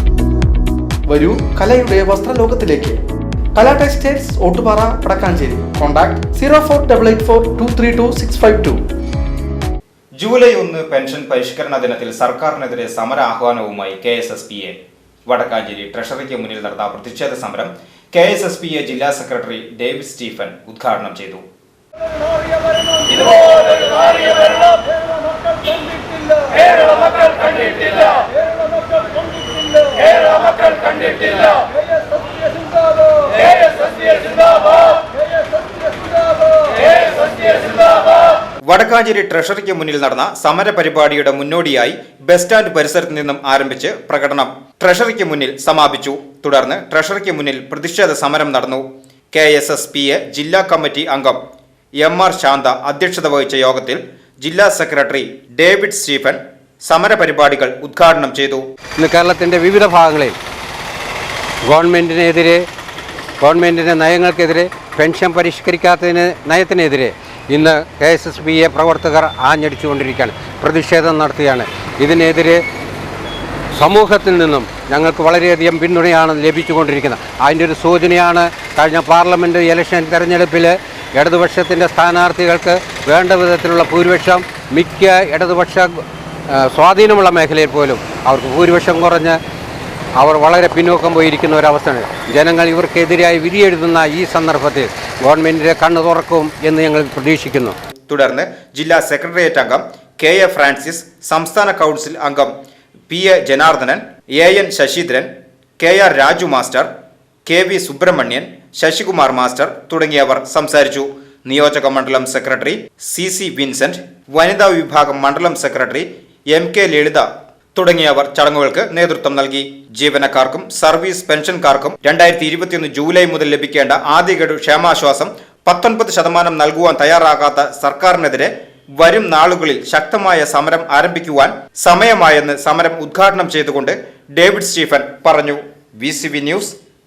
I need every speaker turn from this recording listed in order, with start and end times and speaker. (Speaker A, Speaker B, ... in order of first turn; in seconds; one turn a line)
Speaker A: 1.1-3.0
Speaker A: 3.5-8.8
Speaker B: 10.2-21.4
Speaker C: 30.8-31.3
Speaker B: 38.7-51.4
Speaker B: 52.0-58.6
Speaker C: 59.0-60.4
Speaker C: 61.7-62.6
Speaker C: 63.4-72.6
Speaker C: 73.7-89.4
Speaker C: 90.2-97.8
Speaker B: 98.1-102.5
Speaker B: 103.1-106.9
Speaker B: 107.5-136.8